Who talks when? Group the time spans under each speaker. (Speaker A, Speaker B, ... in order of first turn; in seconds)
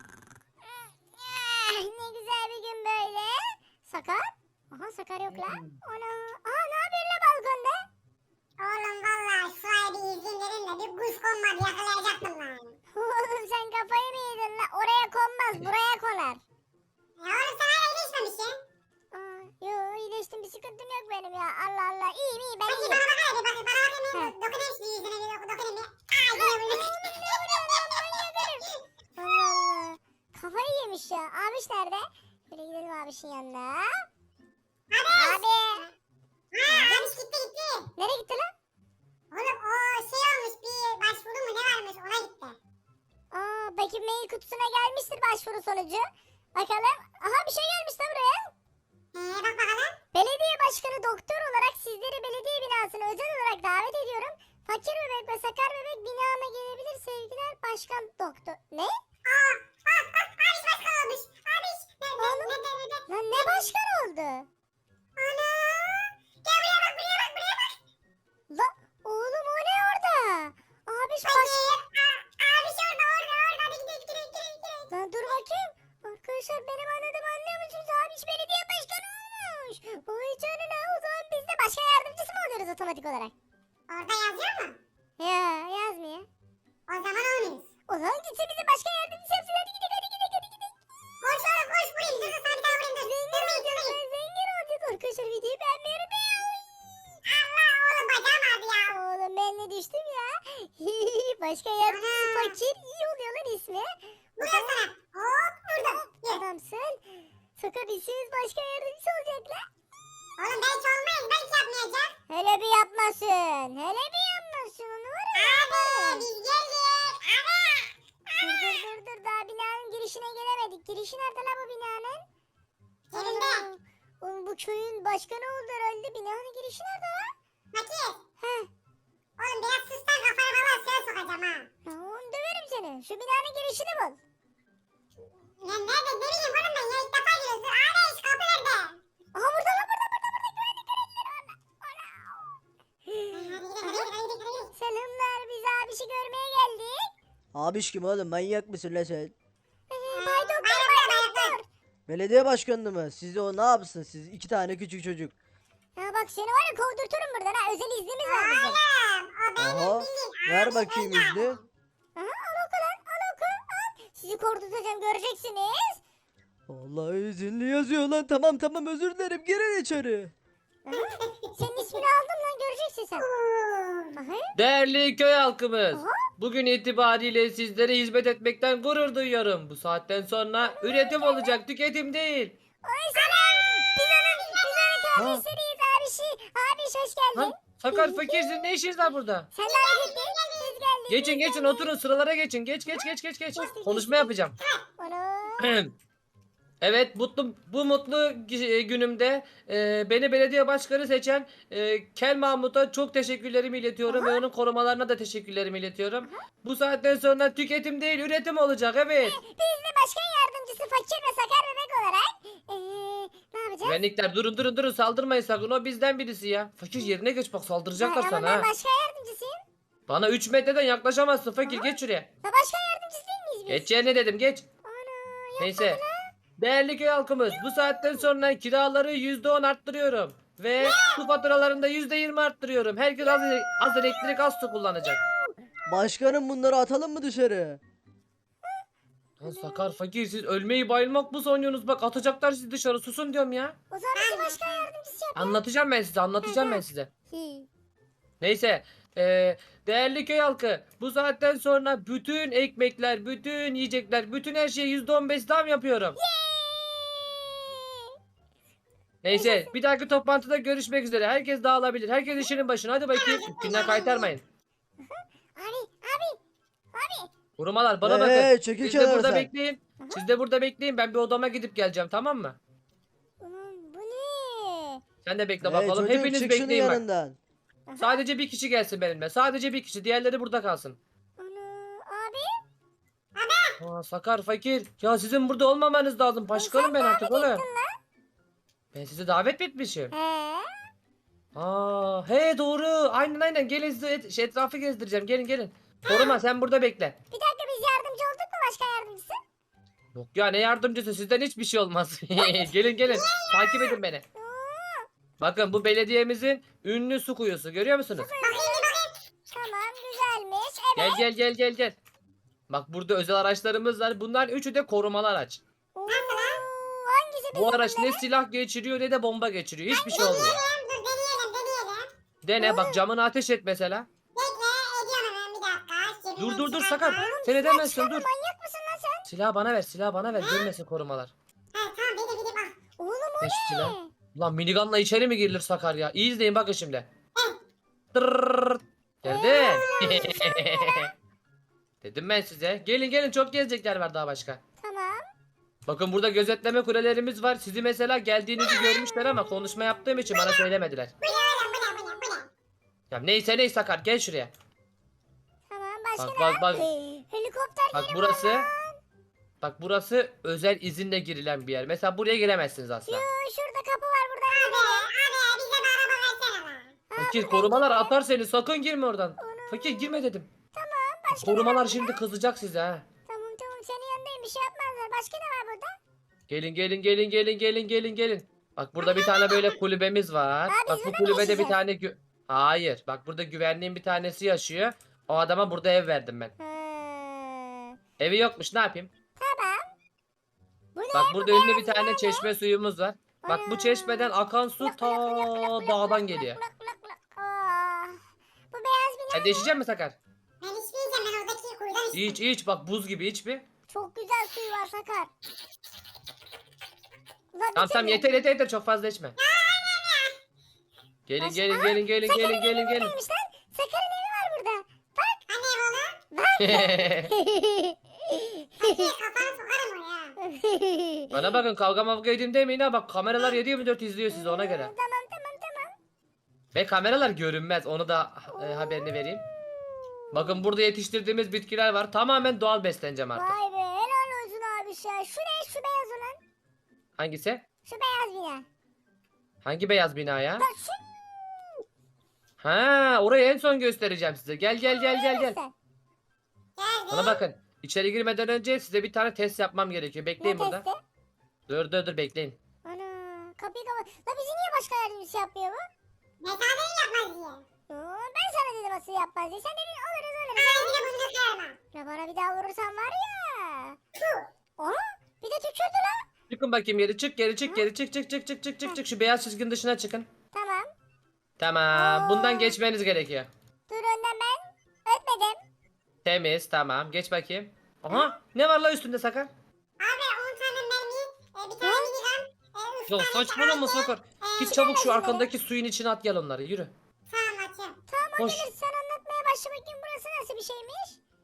Speaker A: 1.1-7.8, 12.9-16.4, 19.1-23.0, 26.3-33.9, 35.1-35.9, 36.7-37.1, 38.0-38.5, 43.3-48.5, 50.1-58.9, 62.2-64.5, 68.5-71.6, 74.9-83.3, 85.2-86.3, 87.9-90.7, 92.2-96.7, 98.9-104.8, 105.8-109.6, 112.3-116.3, 118.4-122.2, 123.1-127.3, 128.4-128.7, 131.8-134.2, 139.3-144.1, 144.8-147.1, 149.9-151.6, 156.0-158.8, 162.2-166.0, 170.9-173.3, 174.2-174.5, 175.9-176.2, 180.6-181.6, 182.8-188.6, 189.5-191.9, 193.6-194.3, 195.0-195.8, 204.1-204.4, 209.2-214.0, 217.9-219.6, 221.7-223.9, 224.9-226.3, 233.2-234.3, 239.5-240.0, 243.9-245.6, 246.4-247.7, 256.2-258.1, 259.3-259.7, 263.5-264.3, 265.0-266.4, 266.9-267.3, 273.4-275.0, 277.9-278.2, 281.4-282.5, 286.5-287.9, 290.1-290.7, 297.3-299.4, 302.4-302.8, 304.3-305.1, 308.1-308.9, 309.5-311.2, 315.9-318.2, 320.1-320.6, 322.6-323.0, 327.1-329.3, 333.0-334.1, 339.2-341.1, 344.8-345.2, 355.7-359.0, 363.1-365.1, 367.1-368.1, 369.4-370.2, 370.7-372.1, 373.3-375.9, 380.7-381.8, 386.6-387.9, 389.4-389.8, 390.9-392.5, 393.4-398.2, 398.7-399.7, 403.9-405.3, 407.5-408.4, 411.4-415.4, 416.3-419.1, 420.4-421.4, 424.3-425.9, 428.5-430.6, 433.3-436.4, 437.8-438.6, 440.6-441.8, 444.8-445.7, 450.4-451.0, 452.8-455.8, 457.9-461.3, 461.9-464.0, 464.8-466.2, 470.5-470.9, 471.9-472.8, 473.9-475.6, 481.8-482.1, 484.6-485.5, 488.1-491.2
Speaker B: 8.6-12.8, 17.2-18.6, 22.7-27.1, 27.7-28.2, 34.9-35.4, 36.5-37.9, 39.3-42.6, 49.1-50.0, 59.2-63.6, 65.2-67.7, 71.2-74.9, 83.9-84.8, 86.9-87.7, 91.2-94.0, 97.3-98.9, 101.9-102.6, 104.4-106.4, 110.4-112.1, 115.3-117.9, 118.5-118.8, 123.1-123.7, 127.7-128.2, 129.4-131.7, 135.6-139.0, 143.3-144.7, 150.1-151.6, 158.3-161.6, 170.9-171.5, 173.2-174.2, 183.2-185.1, 189.6-190.8, 230.8-231.2, 244.2-244.9, 263.1-263.9, 283.3-283.8, 296.1-296.4, 303.1-304.0, 308.4-309.1, 316.1-316.6, 320.1-322.1, 324.3-327.2, 330.4-330.7, 331.7-332.8, 339.5-340.3, 348.6-349.0, 350.3-350.6, 351.2-352.5, 364.5-366.9, 379.2-379.6, 400.6-402.4, 409.4-410.4, 415.5-416.2, 418.8-420.3, 446.8-447.4, 456.4-457.6, 460.6-461.8, 480.0-484.8, 487.3-488.0
Speaker C: 147.6-149.3, 152.1-155.3, 159.6-161.6, 166.7-170.3, 185.2-185.4, 235.9-237.8, 268.0-269.5, 275.6-277.4
Speaker D: 174.6-182.6, 187.3-189.5, 191.1-194.6, 195.6-195.9, 196.8-209.4, 213.8-218.7, 220.1-222.3, 223.7-224.7, 225.6-226.0, 226.6-235.2, 239.4-243.8, 245.4-247.1, 248.4-256.2, 259.2-264.4, 267.6-272.6, 275.2-277.0, 278.0-281.0, 283.8-287.6, 288.9-290.1, 291.5-297.1, 300.1-304.2, 305.4-308.3, 310.9-311.9, 312.7-315.6, 317.5-320.6, 322.4-324.1, 326.4-328.3, 329.3-331.3, 333.4-337.1, 338.1-341.1, 342.0-344.6, 345.9-351.1, 353.1-354.5, 356.2-356.9, 357.9-358.7, 359.6-363.2, 367.1-370.5, 371.3-373.0, 376.5-386.5, 388.2-389.1, 391.1-396.6, 399.3-400.1, 402.1-403.6, 407.8-409.4, 411.3-413.1, 416.6-417.3, 421.3-424.9, 426.7-429.4, 430.3-433.5, 437.2-437.6, 439.6-440.6, 442.6-445.6, 447.1-450.8, 451.7-452.6, 466.5-470.3, 471.6-473.5, 476.2-479.5, 483.1-486.9, 488.4-488.7